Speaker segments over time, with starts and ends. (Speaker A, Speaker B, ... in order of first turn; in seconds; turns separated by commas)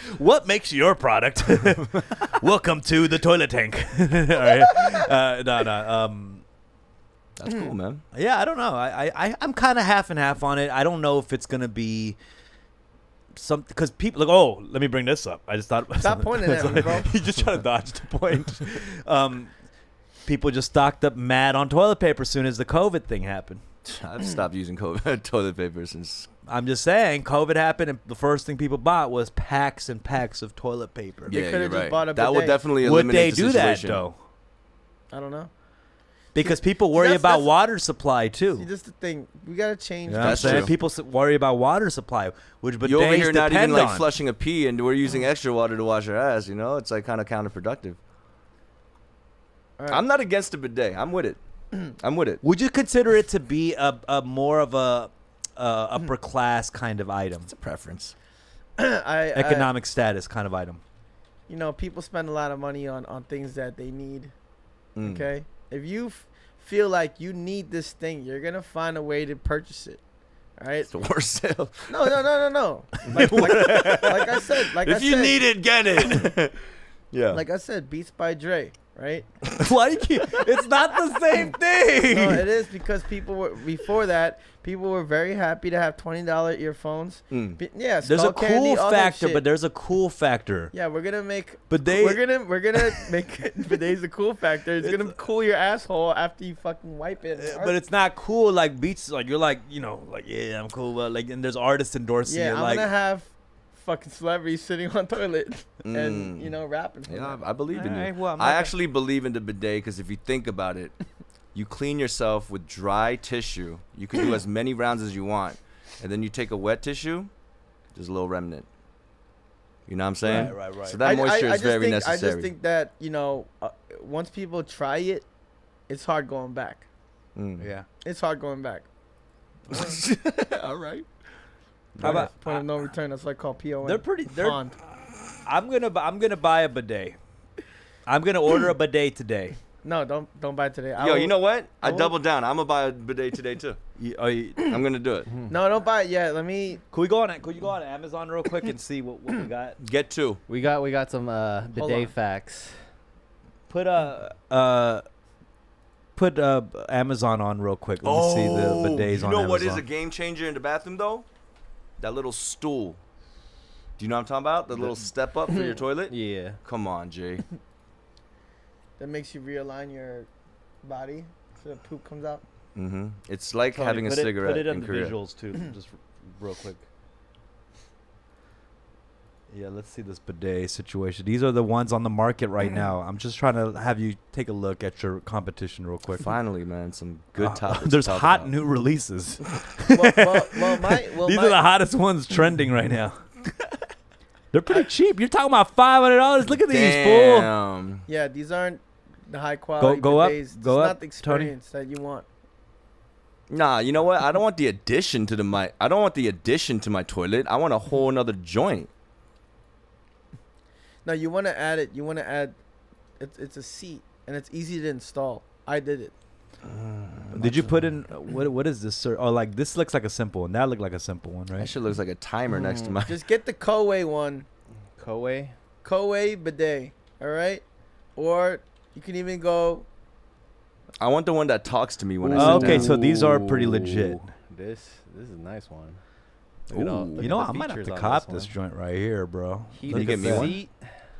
Speaker A: 0.1-6.4, Speaker B: 7.4-8.0, Speaker C: 7.5-7.7, Speaker A: 8.1-12.2, Speaker A: 13.3-19.5, Speaker C: 16.0-17.1, Speaker A: 20.2-23.6, Speaker B: 23.8-26.3, Speaker A: 26.5-31.4, Speaker B: 31.3-34.0, Speaker C: 31.3-32.6, Speaker A: 32.8-34.2, Speaker C: 35.1-35.5, Speaker C: 36.3-37.5, Speaker A: 36.3-38.7, Speaker C: 38.5-40.7, Speaker A: 40.0-44.1, Speaker B: 40.2-40.7, Speaker B: 42.8-48.0, Speaker C: 49.8-50.0, Speaker B: 49.9-52.4, Speaker A: 52.4-57.5, Speaker B: 57.5-58.1, Speaker C: 58.8-59.7, Speaker A: 59.3-60.8, Speaker C: 61.5-64.3, Speaker B: 65.0-65.3, Speaker C: 65.0-70.0, Speaker C: 70.6-71.0, Speaker B: 70.9-71.9, Speaker C: 71.9-75.6, Speaker A: 73.1-74.2, Speaker B: 73.1-74.1, Speaker B: 74.8-77.4, Speaker C: 77.3-79.3, Speaker A: 79.6-82.5, Speaker C: 82.1-89.4, Speaker B: 87.3-87.6, Speaker A: 88.0-90.7, Speaker C: 90.7-97.8, Speaker A: 91.7-92.2, Speaker A: 94.8-95.1, Speaker A: 97.4-102.9, Speaker C: 102.2-107.4, Speaker B: 105.8-106.5, Speaker B: 107.1-111.0, Speaker A: 107.7-108.7, Speaker B: 111.5-117.3, Speaker B: 117.9-118.7, Speaker B: 119.9-122.5, Speaker A: 120.2-121.0, Speaker C: 121.0-125.3, Speaker C: 125.9-126.9, Speaker B: 127.3-127.7, Speaker A: 127.6-127.8, Speaker C: 128.0-128.9, Speaker B: 129.7-131.1, Speaker B: 131.9-132.3, Speaker A: 132.0-132.7, Speaker C: 132.0-134.8, Speaker A: 133.8-134.6, Speaker A: 135.4-137.2, Speaker A: 138.1-139.6, Speaker C: 139.8-142.1, Speaker B: 141.0-143.8, Speaker A: 144.0-144.6, Speaker B: 144.6-145.3, Speaker C: 145.5-146.8, Speaker A: 146.9-149.8, Speaker B: 149.8-150.4, Speaker D: 150.5-152.9, Speaker C: 151.7-152.1, Speaker A: 153.7-155.0, Speaker A: 156.2-159.8, Speaker B: 158.0-161.3, Speaker B: 162.0-163.0, Speaker B: 164.0-167.4, Speaker D: 166.1-166.6, Speaker C: 169.0-170.3, Speaker C: 170.8-172.4, Speaker B: 172.7-175.2, Speaker A: 173.7-176.8, Speaker A: 179.5-186.3, Speaker B: 186.2-188.5, Speaker A: 187.4-190.3, Speaker C: 189.9-191.6, Speaker A: 190.9-193.3, Speaker A: 194.5-197.5, Speaker B: 196.7-198.0, Speaker C: 198.1-202.2, Speaker A: 199.8-201.5, Speaker B: 203.5-208.9, Speaker C: 211.0-212.6, Speaker C: 213.2-216.1, Speaker B: 216.6-217.9, Speaker A: 217.3-221.7, Speaker B: 221.6-223.2, Speaker D: 222.5-223.0, Speaker C: 223.1-224.4, Speaker D: 224.9-225.6, Speaker C: 225.8-227.6, Speaker C: 228.2-229.8, Speaker B: 231.0-233.2, Speaker D: 232.2-236.1, Speaker A: 232.3-234.3, Speaker D: 236.7-238.6, Speaker B: 236.7-237.3, Speaker A: 237.2-240.8, Speaker D: 239.7-240.9, Speaker B: 239.9-240.6